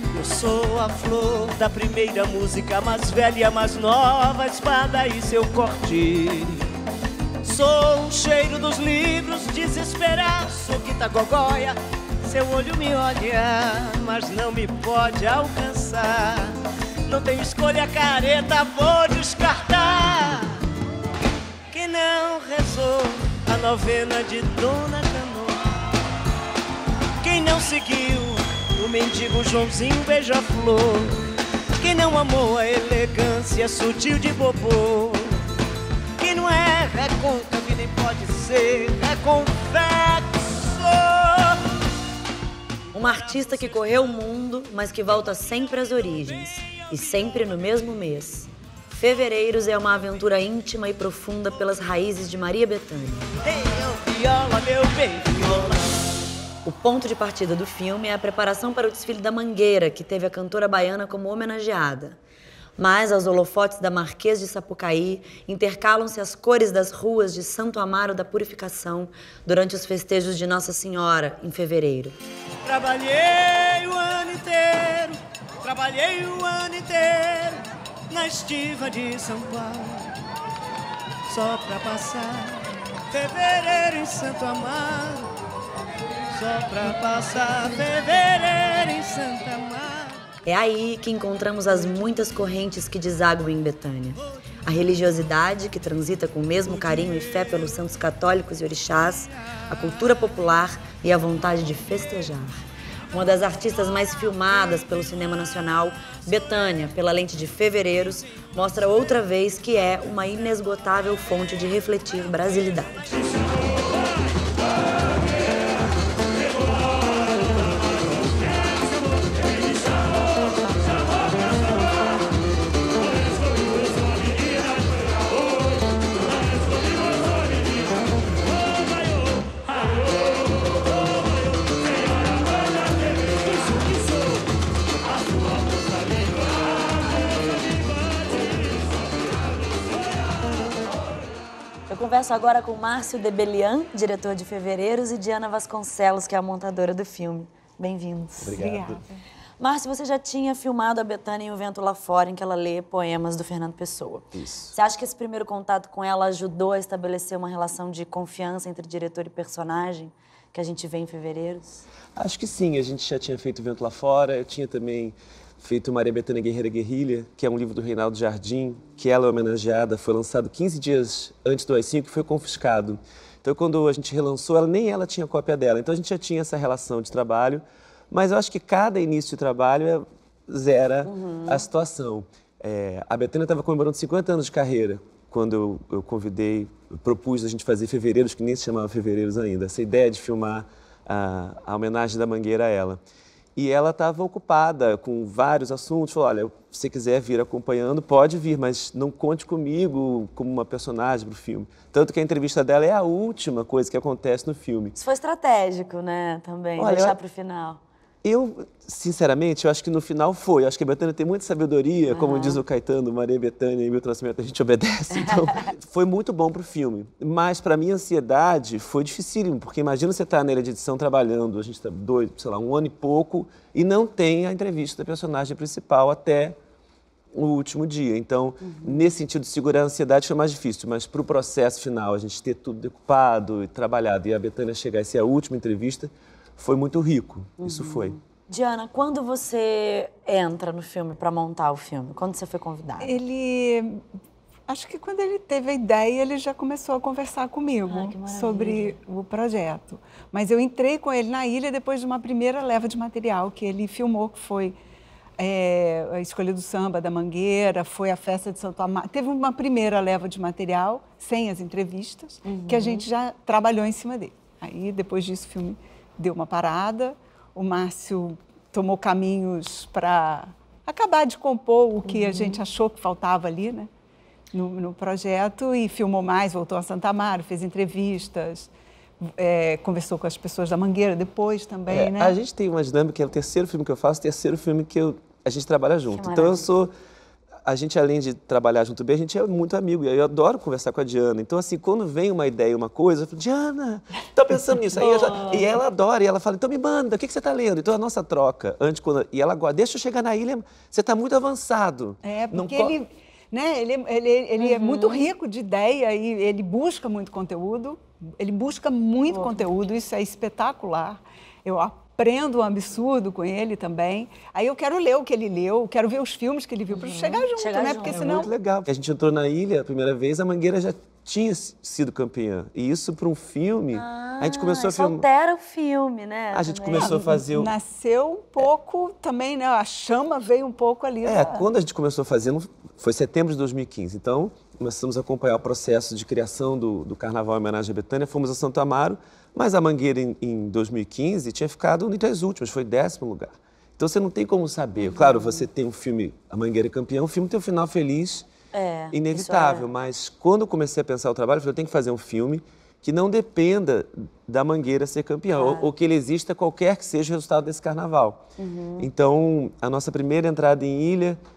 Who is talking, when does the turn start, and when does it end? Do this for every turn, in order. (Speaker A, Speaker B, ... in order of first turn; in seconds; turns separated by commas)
Speaker A: 0.1-6.6, Speaker A: 7.4-20.6, Speaker A: 21.7-25.7, Speaker A: 27.2-31.2, Speaker A: 31.8-35.4, Speaker A: 36.2-41.6, Speaker B: 42.9-53.3, Speaker A: 53.4-56.0, Speaker B: 56.6-62.2, Speaker B: 62.8-72.2, Speaker A: 72.6-80.1, Speaker A: 81.2-85.3, Speaker A: 86.3-90.2, Speaker B: 90.5-113.1, Speaker B: 141.9-148.6, Speaker C: 148.4-149.0, Speaker D: 148.6-149.1, Speaker B: 149.6-161.8, Speaker C: 154.3-154.7, Speaker C: 162.2-193.0, Speaker B: 181.0-181.7, Speaker C: 193.6-204.9, Speaker B: 204.9-207.8, Speaker C: 206.8-207.2, Speaker C: 208.2-226.6, Speaker B: 212.1-212.6, Speaker C: 227.3-238.2, Speaker B: 228.6-229.0, Speaker B: 237.6-243.1, Speaker D: 243.0-244.0, Speaker D: 244.7-254.8, Speaker B: 247.9-249.0, Speaker D: 255.4-273.9, Speaker B: 262.4-263.1, Speaker B: 272.1-272.6, Speaker D: 274.5-282.4, Speaker C: 281.9-286.9, Speaker B: 286.1-286.7, Speaker C: 287.6-302.9, Speaker B: 295.0-295.6, Speaker D: 302.2-318.5, Speaker B: 304.6-305.2, Speaker B: 309.3-309.7, Speaker B: 316.9-318.5, Speaker C: 318.0-325.2, Speaker B: 323.9-327.1, Speaker C: 326.5-327.7, Speaker D: 327.0-331.6, Speaker C: 331.2-348.5, Speaker B: 345.0-345.6, Speaker B: 348.7-349.9, Speaker C: 349.1-358.4, Speaker B: 355.5-355.9, Speaker B: 358.6-359.1, Speaker C: 359.0-361.4